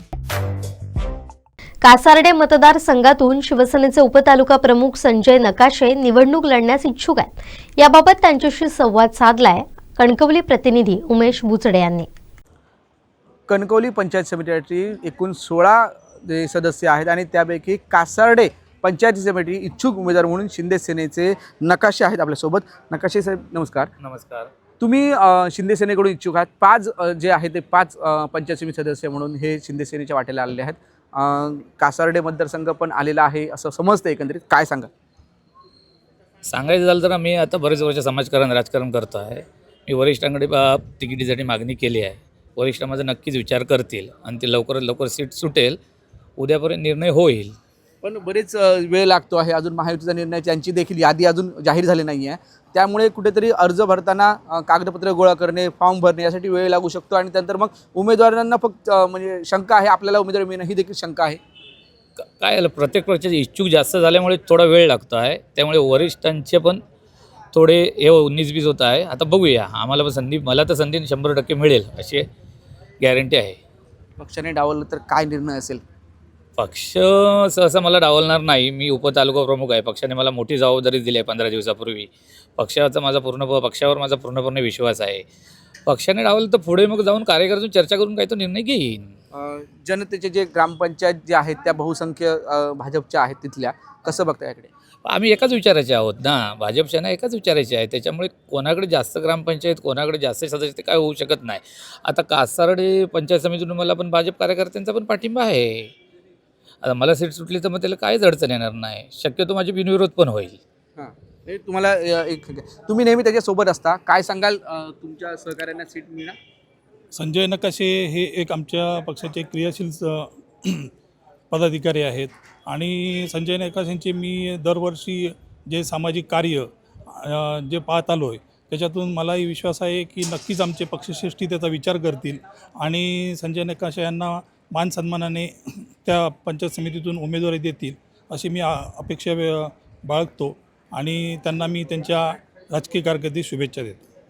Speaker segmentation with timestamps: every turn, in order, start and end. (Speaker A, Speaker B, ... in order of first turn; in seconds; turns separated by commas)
Speaker A: 1.8-12.1, Speaker B: 13.5-23.9, Speaker C: 24.0-24.5, Speaker B: 24.8-34.9, Speaker C: 36.5-45.8, Speaker C: 46.4-47.5, Speaker B: 48.0-61.4, Speaker C: 62.2-66.8, Speaker C: 67.5-72.2, Speaker C: 73.0-73.6, Speaker B: 74.2-75.8, Speaker C: 76.6-85.2, Speaker C: 85.9-89.1, Speaker B: 89.3-94.7, Speaker C: 95.0-105.9, Speaker C: 106.8-110.6, Speaker B: 111.0-116.3, Speaker D: 117.1-120.9, Speaker D: 121.5-144.1